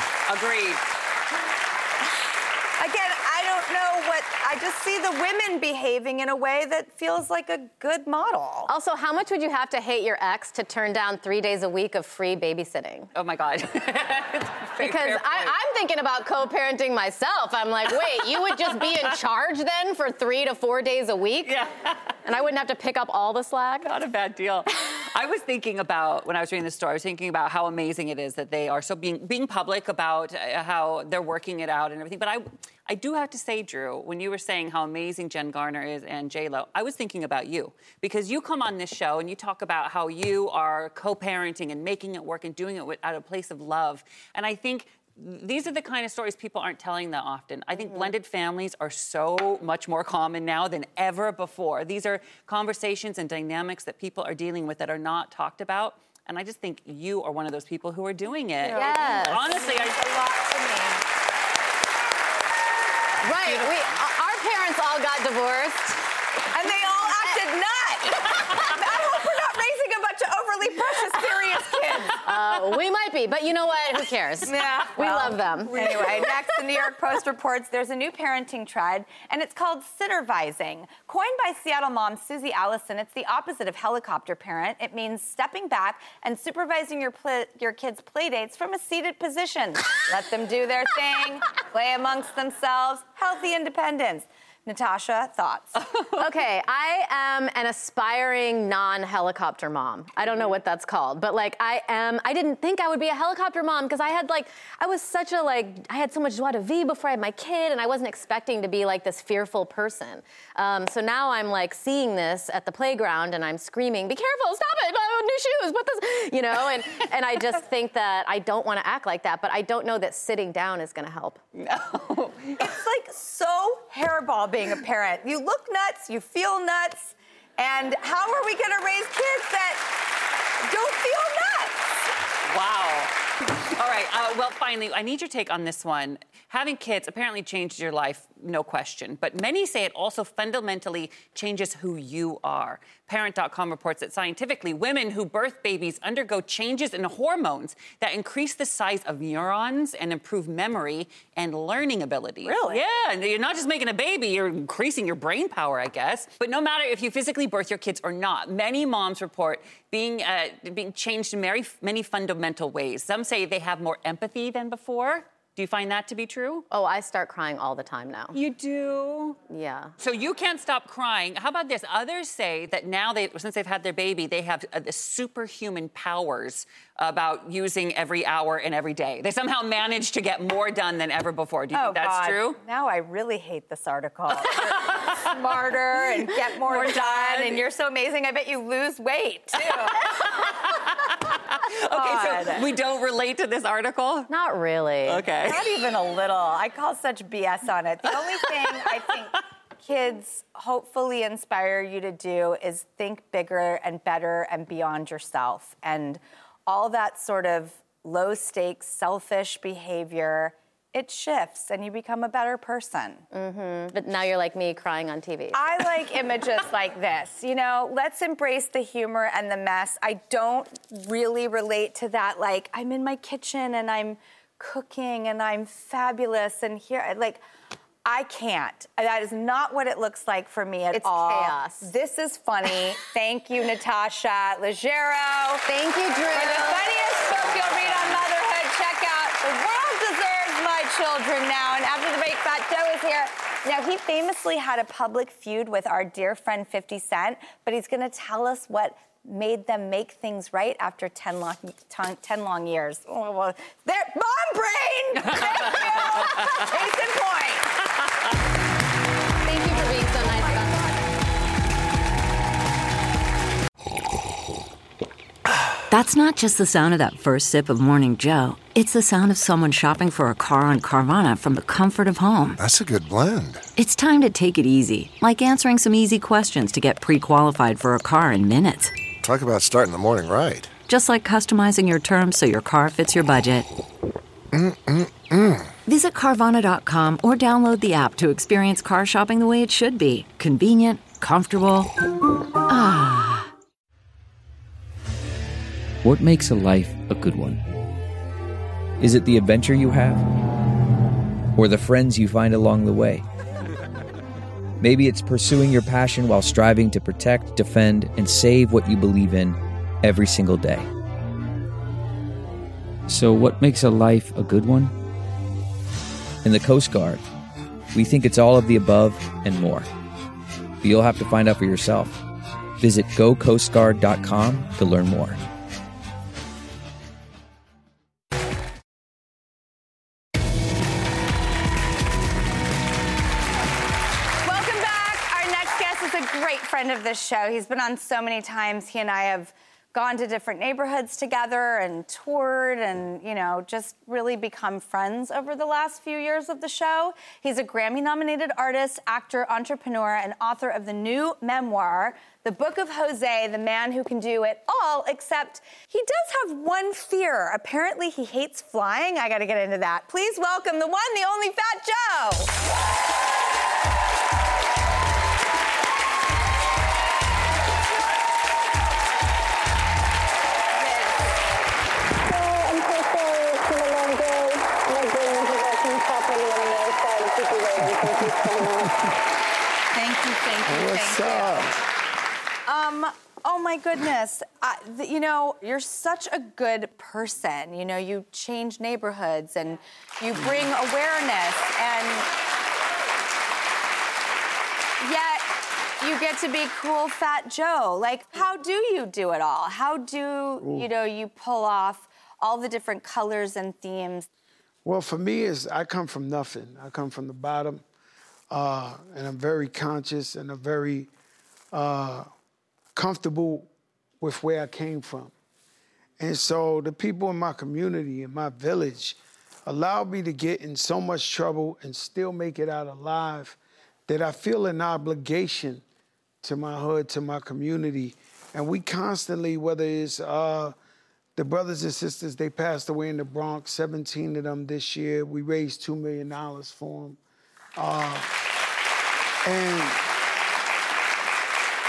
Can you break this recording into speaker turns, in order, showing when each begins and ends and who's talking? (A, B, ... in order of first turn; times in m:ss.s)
0:00.3-0:00.8 A
0:02.8-0:08.7 B
0:08.7-0:13.1 C
0:13.1-0:15.5 A
0:14.8-0:21.5 C
0:17.9-0:19.0 A
0:21.4-0:21.9 A
0:22.2-0:23.9 C
0:23.8-1:00.0 A
0:47.8-0:48.1 C
0:58.6-1:01.0 B
0:58.7-0:59.6 C
1:03.2-1:06.0 C
1:03.4-1:04.0 A
1:06.5-1:12.2 B
1:11.7-1:12.6 A
1:12.2-1:16.4 C
1:14.4-1:35.8 B
1:36.1-2:01.4 C
2:01.6-2:02.6 A
2:02.6-2:09.8 B
2:10.6-2:12.0 B
2:12.5-2:13.1 A
2:13.8-2:46.6 A
2:32.4-2:32.8 B
2:46.7-2:48.4 C
2:48.3-2:49.4 A
2:49.5-2:49.9 C
2:50.0-3:02.6 A
3:01.7-3:10.5 B
3:04.3-3:07.6 A
3:09.6-3:14.3 A
3:11.8-3:12.7 B
3:14.3-3:15.3 C
3:15.0-3:15.6 A
3:15.4-3:33.2 B
3:18.3-3:19.0 A
3:33.3-3:35.9 C
3:35.5-3:47.4 B
3:48.0-4:17.8 B
3:50.9-3:51.9 C
3:56.1-3:56.9 C
3:57.1-3:58.3 A
4:15.2-4:16.6 A
4:19.4-4:20.9 C
4:19.7-4:20.8 B
4:25.9-4:32.6 D
4:32.6-4:33.6 E
4:33.8-4:38.9 D
4:39.2-4:40.7 E
4:40.9-4:43.7 D
4:44.5-4:45.7 E
4:45.9-4:51.9 D
4:52.7-4:53.5 D
4:56.0-4:57.6 F
4:59.0-5:00.3 F
5:01.6-5:03.2 F
5:04.8-5:10.9 F
5:13.1-5:14.9 F
5:16.4-5:17.2 F
5:17.9-5:19.9 F
5:20.8-5:22.2 F
5:22.8-5:25.4 F
5:34.4-6:02.5 B
6:10.7-6:11.2 B
6:12.2-6:19.0 G
6:19.9-6:21.7 B
6:20.6-6:21.8 H
6:22.7-6:32.3 B
6:35.0-6:44.3 B
6:40.6-6:40.9 H
6:44.8-6:47.8 H
6:48.5-6:51.1 H
6:51.7-6:52.3 H
6:52.9-6:53.7 H
6:54.2-6:55.3 H
6:56.2-7:05.8 H
7:06.4-7:10.7 H
7:11.4-7:17.2 H
7:17.8-7:18.3 H
7:19.4-7:20.0 H